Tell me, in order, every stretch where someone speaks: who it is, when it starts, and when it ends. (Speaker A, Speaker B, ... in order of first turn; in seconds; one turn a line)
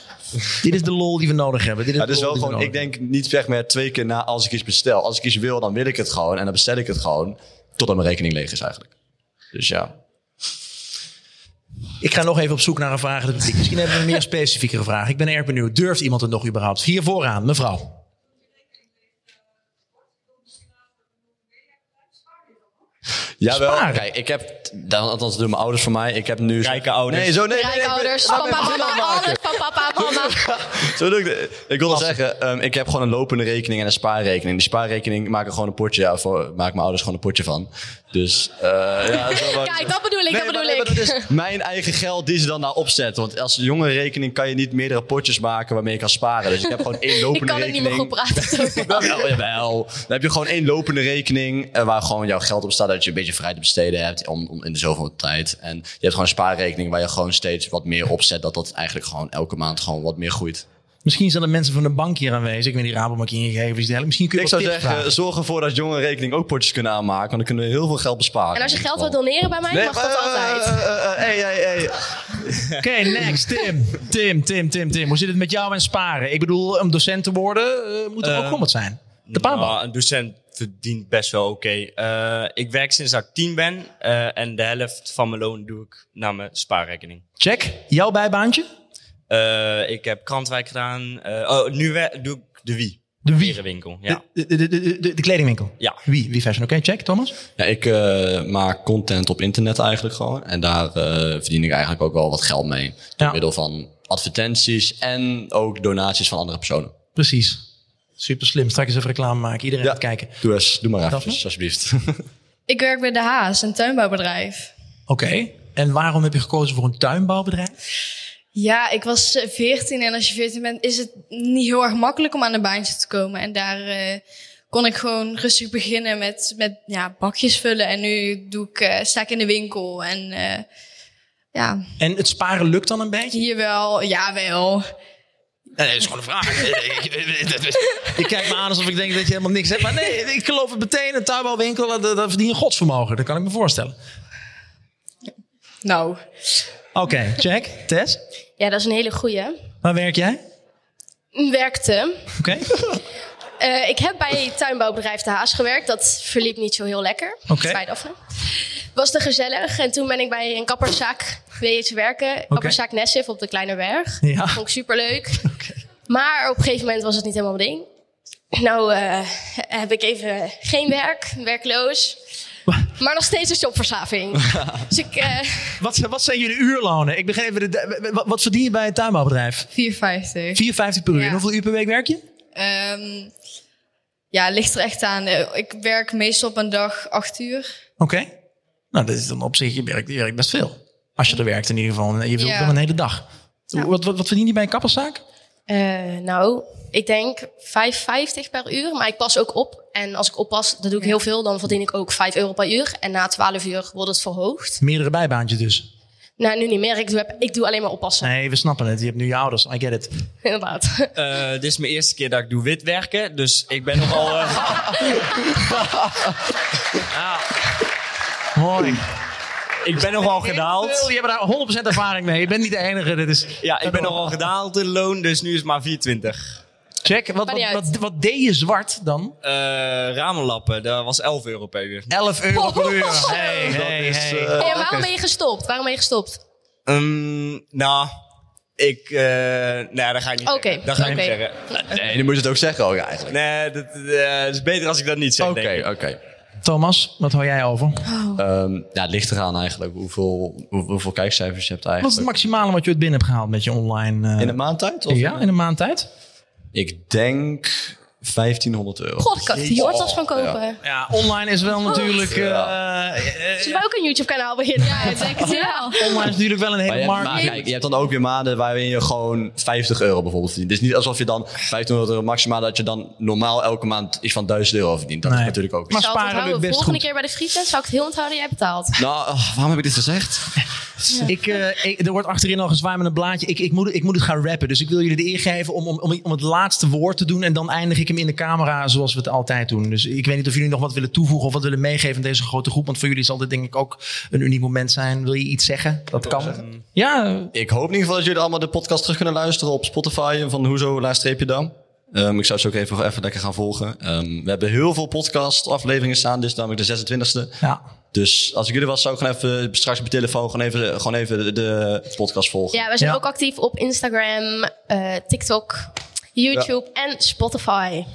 Speaker A: 0.6-2.8
Speaker B: 2.0-8.9
Speaker B: 9.5-9.9
Speaker A: 12.0-17.9
Speaker B: 23.4-60.6
Speaker A: 23.5-24.0
Speaker C: 26.6-27.3
Speaker D: 27.5-30.6
Speaker D: 39.1-41.3
Speaker D: 46.7-49.2
Speaker A: 61.0-65.1
Speaker B: 64.3-69.2
Speaker D: 68.5-70.8
Speaker B: 69.7-72.4
Speaker A: 72.8-79.8
Speaker C: 78.2-78.6
Speaker C: 79.3-87.2
Speaker A: 87.4-88.6
Speaker C: 89.3-94.2
Speaker A: 93.2-97.3
Speaker B: 97.6-106.9
Speaker A: 107.2-107.6
Speaker A: 108.2-110.4
Speaker B: 109.8-112.2
Speaker A: 111.1-111.4
Speaker E: 112.7-114.7
Speaker A: 115.1-117.7
Speaker E: 118.5-130.7
Speaker E: 131.5-131.8
Speaker A: 132.0-133.4
Speaker E: 133.3-134.9
Speaker A: 135.8-143.9
Speaker E: 145.8-146.2
Speaker A: 146.9-148.2
Speaker D: 148.6-149.6
Speaker A: 149.8-150.4
Speaker D: 151.3-152.3
Speaker A: 152.4-152.8
Speaker D: 153.6-165.4
Speaker A: 157.5-157.8
Speaker A: 162.5-162.8
Speaker A: 164.2-164.6
Speaker A: 165.4-165.8
Speaker D: 166.1-167.8
Speaker D: 168.5-172.2
Speaker D: 173.0-175.8
Speaker A: 175.8-179.7
Speaker E: 179.7-181.4
Speaker A: 180.5-182.2
Speaker E: 182.5-183.3
Speaker E: 184.3-187.7
Speaker A: 188.0-188.3
Speaker A: 188.9-195.2
Speaker E: 192.3-192.8
Speaker D: 195.7-204.8
Speaker A: 204.8-205.9
Speaker D: 206.4-208.3
Speaker A: 208.2-210.1
Speaker D: 210.4-211.1
Speaker C: 211.2-215.1
Speaker A: 217.1-217.4
Speaker A: 218.5-219.0
Speaker C: 219.8-221.1
Speaker A: 220.2-224.3
Speaker C: 223.6-226.4
Speaker A: 227.0-229.3
Speaker D: 227.5-227.8
Speaker C: 229.4-232.1
Speaker A: 232.1-234.8
Speaker D: 232.5-233.8
Speaker B: 232.6-235.1
Speaker D: 234.6-236.4
Speaker C: 236.9-238.1
Speaker C: 238.8-241.8
Speaker D: 240.4-241.3
Speaker A: 241.0-241.3
Speaker B: 241.7-243.3
Speaker C: 243.3-245.8
Speaker B: 245.4-246.2
Speaker A: 246.6-248.0
Speaker E: 248.0-248.4
Speaker B: 248.3-252.4
Speaker A: 252.0-256.1
Speaker B: 254.4-255.5
Speaker B: 256.7-260.6
Speaker D: 259.2-260.8
Speaker A: 260.8-263.8
Speaker B: 262.3-262.7
Speaker D: 263.6-266.2
Speaker E: 264.8-266.0
Speaker A: 266.0-267.7
Speaker B: 266.9-276.0
Speaker A: 275.2-277.0
Speaker D: 275.9-279.0
Speaker B: 279.0-280.6
Speaker A: 281.2-297.5
Speaker C: 296.2-296.8
Speaker B: 297.5-307.6
Speaker B: 308.1-312.8
Speaker D: 312.7-318.1